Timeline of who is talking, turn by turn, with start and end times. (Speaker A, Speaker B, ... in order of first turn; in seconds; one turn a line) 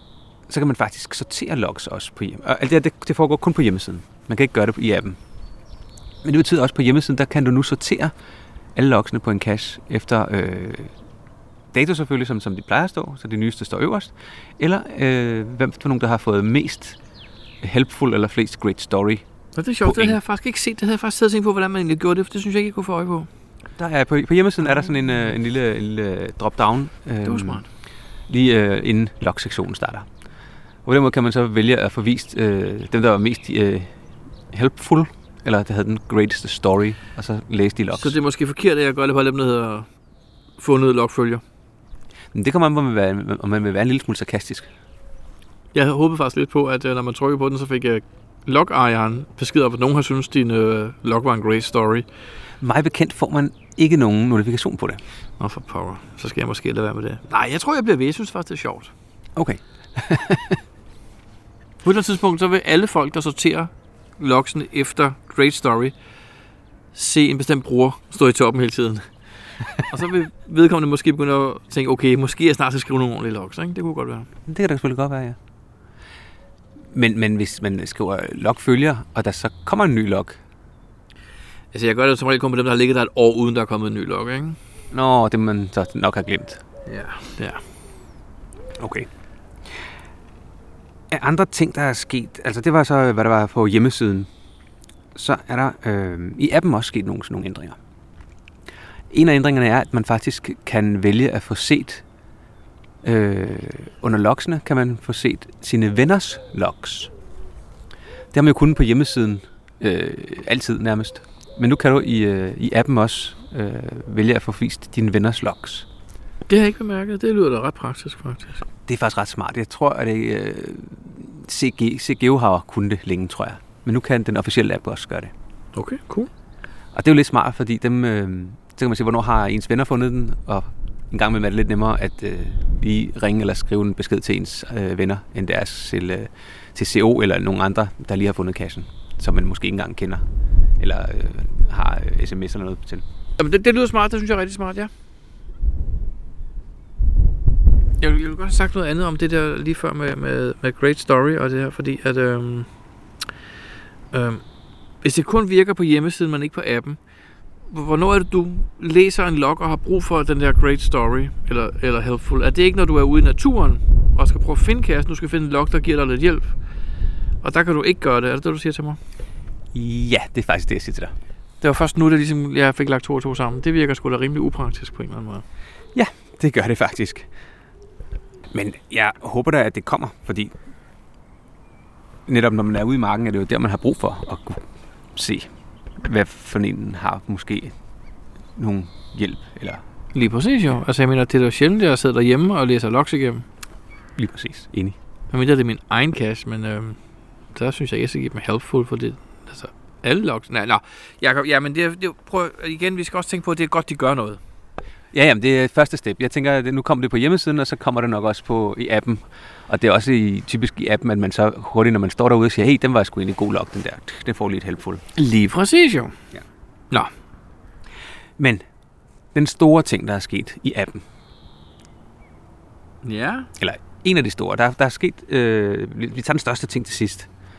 Speaker A: 0.5-5.2
Speaker A: 6.2-8.1
Speaker A: 8.7-10.9
Speaker A: 11.7-17.0
Speaker A: 17.6-19.2
Speaker B: 19.6-23.3
Speaker A: 19.8-20.2
Speaker A: 23.8-27.6
Speaker B: 27.2-27.6
Speaker A: 28.3-30.1
Speaker A: 30.8-34.0
Speaker A: 34.5-38.1
Speaker B: 37.9-39.9
Speaker B: 40.6-41.4
Speaker A: 42.3-44.7
Speaker B: 45.7-52.0
Speaker A: 52.6-55.0
Speaker B: 55.4-58.9
Speaker A: 59.4-60.6
Speaker B: 61.8-65.9
Speaker B: 66.9-74.3
Speaker A: 74.5-75.4
Speaker A: 76.9-80.4
Speaker B: 81.7-84.6
Speaker A: 84.9-86.6
Speaker B: 86.9-87.6
Speaker A: 88.8-89.1
Speaker A: 91.1-94.3
Speaker A: 95.1-97.8
Speaker A: 99.1-102.0
Speaker A: 103.0-107.1
Speaker A: 108.3-115.9
Speaker B: 116.5-118.6
Speaker A: 118.9-125.3
Speaker B: 125.7-126.3
Speaker A: 126.9-140.2
Speaker A: 140.8-143.0
Speaker B: 143.4-144.9
Speaker B: 148.0-152.7
Speaker B: 154.1-157.0
Speaker B: 157.7-166.6
Speaker B: 167.4-169.0
Speaker A: 169.7-171.1
Speaker B: 171.6-175.4
Speaker A: 175.9-177.3
Speaker A: 178.5-180.5
Speaker A: 182.3-187.7
Speaker A: 188.5-189.8
Speaker B: 190.1-193.4
Speaker A: 194.2-195.0
Speaker B: 195.3-197.0
Speaker B: 197.5-204.4
Speaker A: 205.1-215.0
Speaker B: 215.1-216.2
Speaker A: 218.4-218.6
Speaker A: 219.3-221.0
Speaker B: 223.0-223.5
Speaker A: 223.6-227.3